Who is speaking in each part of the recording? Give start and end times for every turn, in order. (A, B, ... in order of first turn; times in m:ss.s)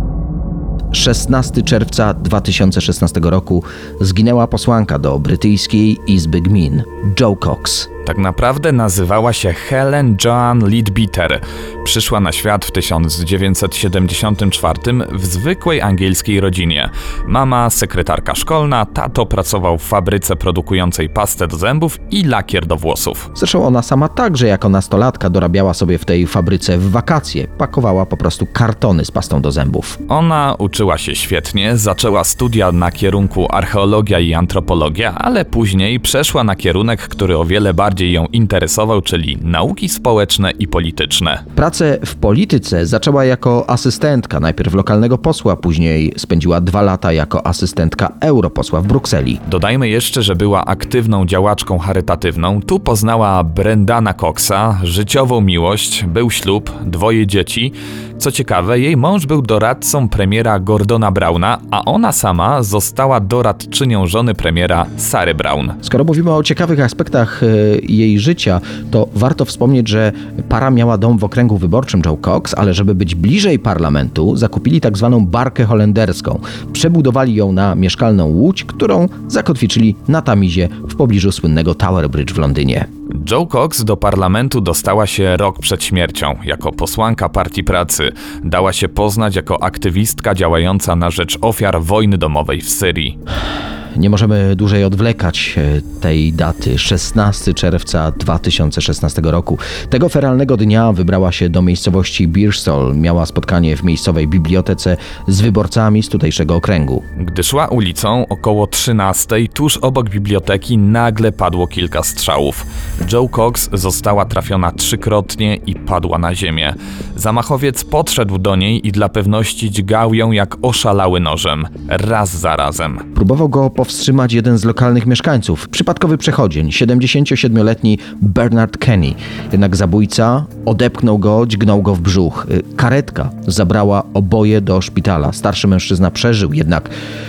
0:00.9-0:07.9 A
0:08.1-0:23.3 B
0:23.4-0:30.0 A
0:30.1-0:41.4 B
0:41.6-0:49.4 A
0:49.5-1:05.8 B
1:05.8-1:22.9 A
1:23.1-1:33.2 B
1:34.0-1:47.0 A
1:47.2-2:03.0 B
2:03.2-2:16.9 A